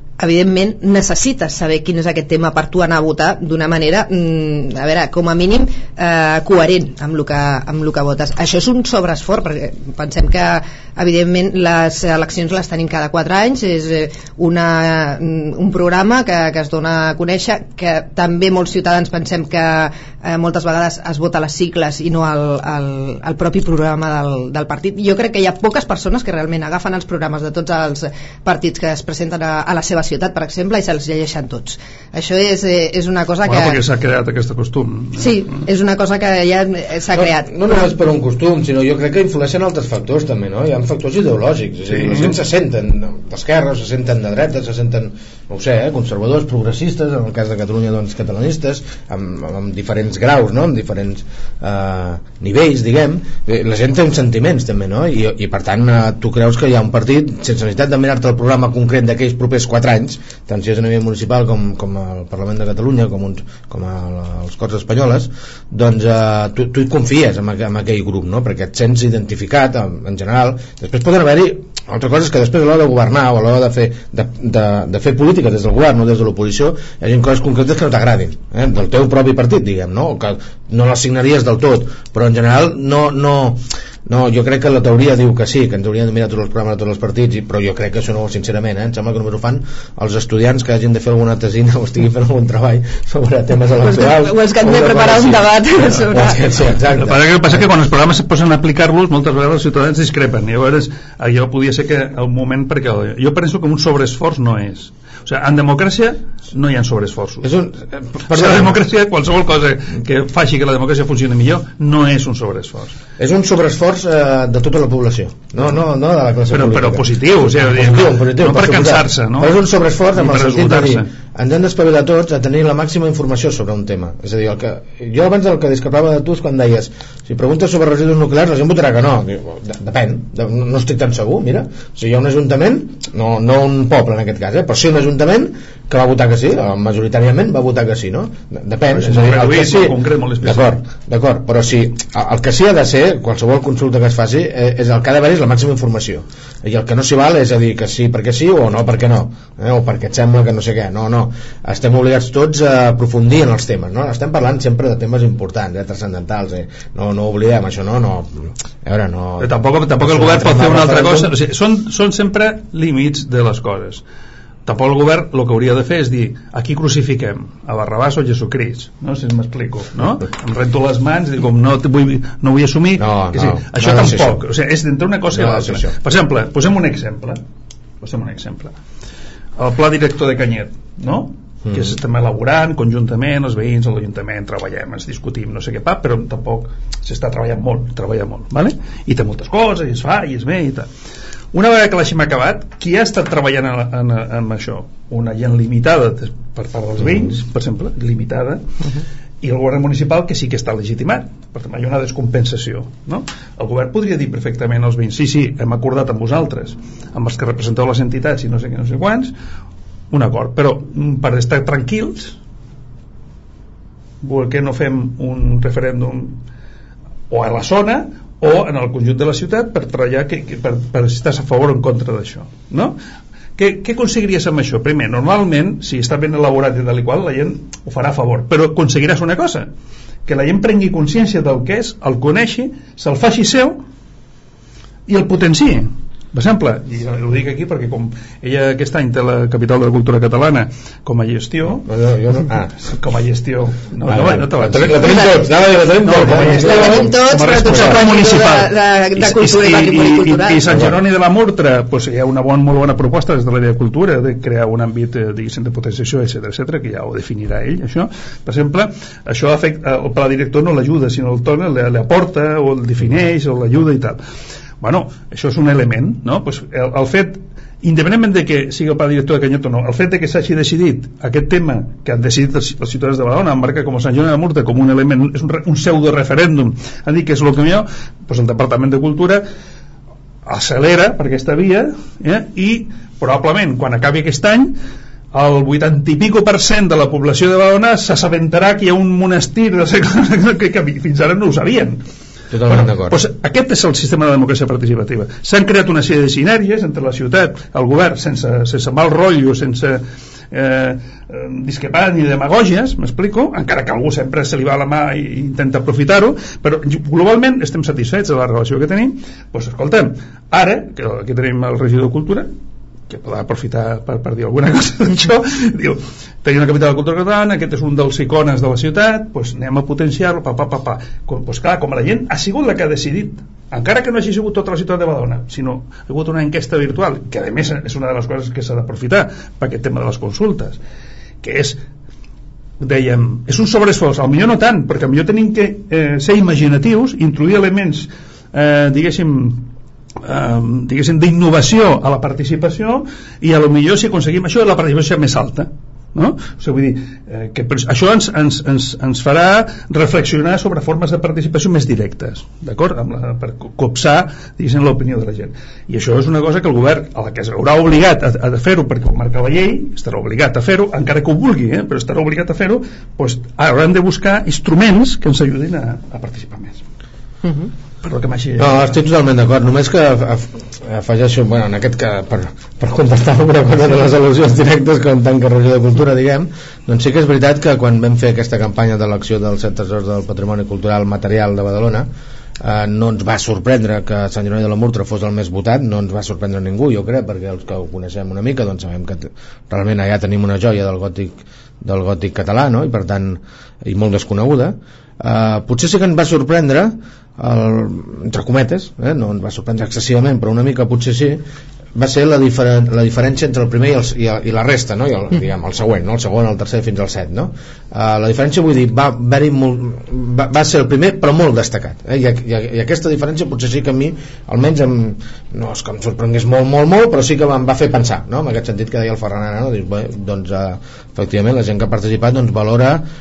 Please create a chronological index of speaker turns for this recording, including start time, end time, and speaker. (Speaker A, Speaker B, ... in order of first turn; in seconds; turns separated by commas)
Speaker A: 0.2-33.8, Speaker B: 33.5-35.3, Speaker A: 35.2-37.5, Speaker C: 37.1-97.6, Speaker B: 41.9-42.3, Speaker A: 93.8-96.4, Speaker B: 96.9-107.5, Speaker C: 107.4-108.8, Speaker B: 108.3-113.0, Speaker C: 113.2-161.3, Speaker B: 116.5-119.5, Speaker B: 120.2-121.1, Speaker B: 138.9-140.7, Speaker B: 159.4-164.0, Speaker B: 164.7-177.4, Speaker C: 173.0-174.4, Speaker C: 175.3-175.9, Speaker B: 178.0-178.8, Speaker B: 179.6-190.9, Speaker B: 191.5-198.6, Speaker B: 199.4-209.3, Speaker B: 210.1-212.4, Speaker B: 214.2-216.4, Speaker B: 217.3-223.0, Speaker B: 223.6-229.7, Speaker B: 230.3-233.8, Speaker B: 235.1-241.8, Speaker C: 241.8-242.8, Speaker B: 242.8-245.4, Speaker C: 244.1-247.1, Speaker A: 245.0-245.4, Speaker B: 246.0-264.2, Speaker A: 246.4-250.6, Speaker C: 250.7-250.9, Speaker B: 264.8-279.4, Speaker B: 280.4-284.8, Speaker B: 285.3-292.0, Speaker C: 292.5-293.2, Speaker B: 292.7-312.5, Speaker B: 313.1-330.8, Speaker B: 331.4-331.8, Speaker B: 332.8-339.7, Speaker B: 340.2-366.8, Speaker B: 368.0-369.0, Speaker C: 368.6-382.1, Speaker C: 382.6-401.4, Speaker C: 401.9-423.1